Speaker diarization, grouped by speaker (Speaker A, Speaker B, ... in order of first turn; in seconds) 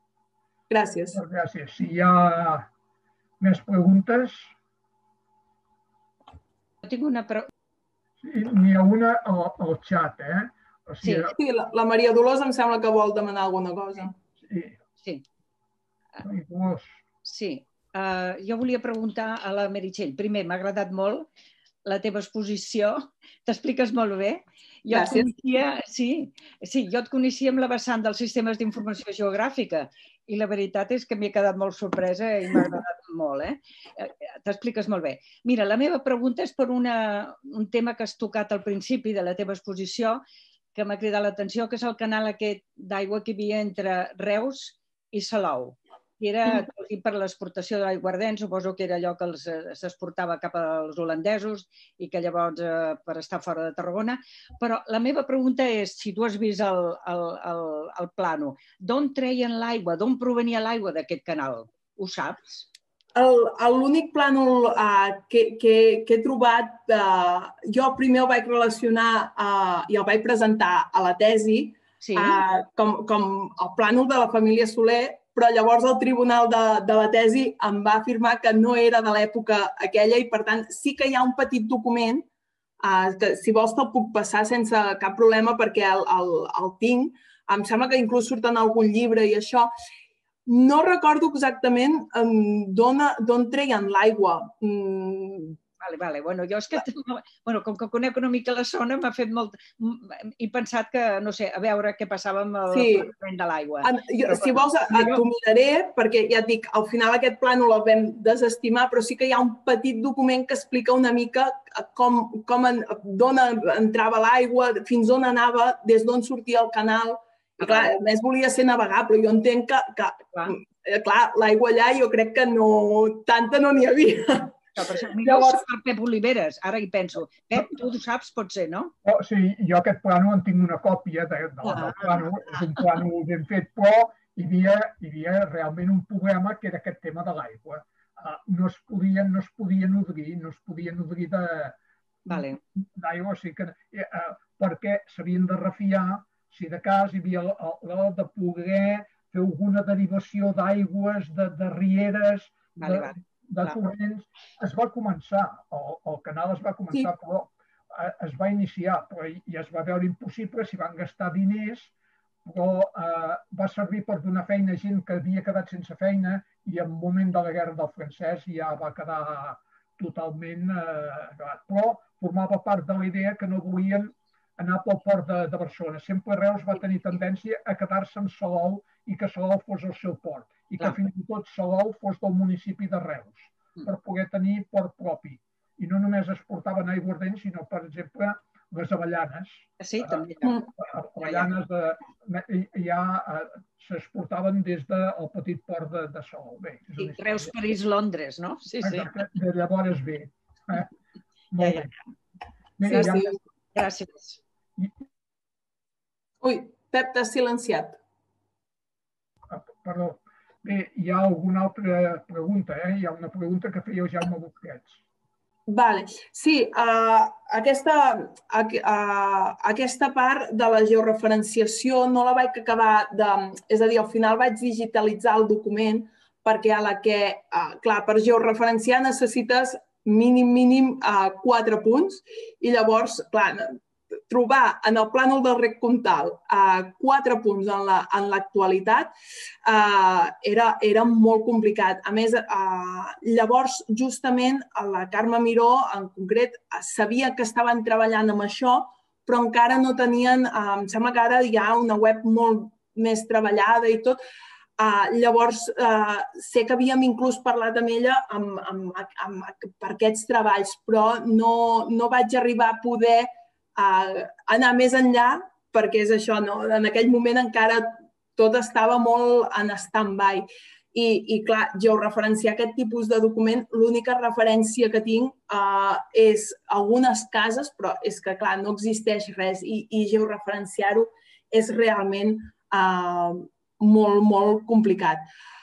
Speaker A: 0.7-1.2, 11.3-14.2, 24.9-25.5, 63.1-82.3, 82.8-89.7, 90.5-95.6, 102.7-103.1, 103.8-125.6, 202.8-203.4, 206.4-208.0, 215.7-233.8, 234.3-239.1, 239.6-254.2, 254.8-285.2
Speaker B: 1.1-2.7, 3.4-4.5, 8.2-11.3, 14.4-14.8, 16.2-17.0, 129.0-141.8, 142.3-161.9, 162.4-190.2, 190.8-197.5, 198.8-200.9, 201.5-201.9, 202.8-203.3, 209.5-215.0
Speaker C: 6.8-7.5, 11.0-11.3, 17.2-21.3, 21.9-40.2, 40.8-62.7, 72.0-72.4, 95.8-105.2, 117.6-117.9, 124.8-128.9, 131.6-132.9, 142.3-142.6, 152.8-153.8, 189.8-190.6, 191.2-191.5, 197.0-199.1, 201.6-201.9, 202.9-204.4